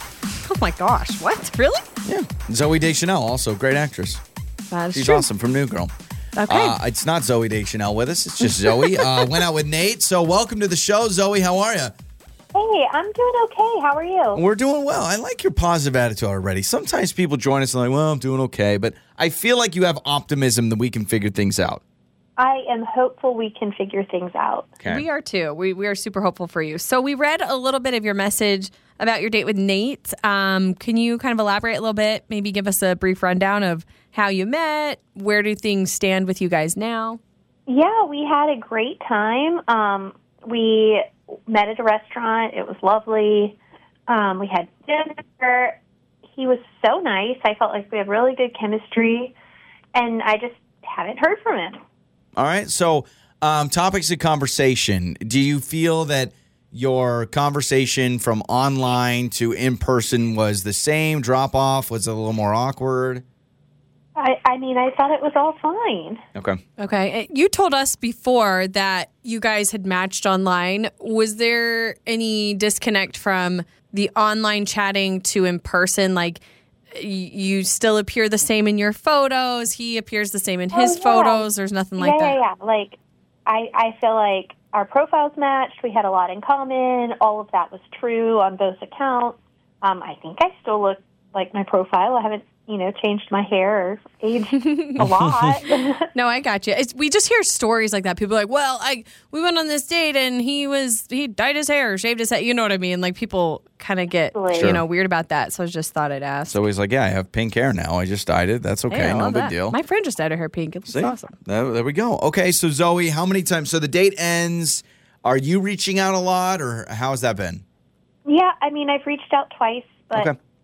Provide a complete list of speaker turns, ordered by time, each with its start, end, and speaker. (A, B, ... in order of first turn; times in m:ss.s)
0:00.4-0:01.9 A
0:02.0-0:04.2 B
0:04.7-0:05.3 A
0:04.9-0:05.9 B
0:06.4-0:06.8 A
0:06.5-0:11.9 B
0:08.4-0:09.2 A
0:12.5-0:14.4 C
0:14.3-0:21.8 B
0:22.4-0:24.7 C
0:24.8-0:37.2 A
0:37.7-0:43.6 C
0:44.1-0:45.8 C
0:46.3-0:49.3 C
0:49.9-0:51.8 C
0:52.4-1:03.2 B
1:04.2-1:06.2 C
1:06.8-1:16.4 A
1:16.9-1:22.4 A
1:20.7-1:21.4 C
1:22.0-1:23.0 C
1:23.5-1:36.0 C
1:35.0-1:35.6 B
1:36.1-1:46.6 A
1:44.3-1:44.7 C
1:44.5-1:44.8 B
1:46.5-1:49.8 B
1:48.9-1:51.4 A
1:50.9-1:57.6 B
1:58.2-2:00.3 C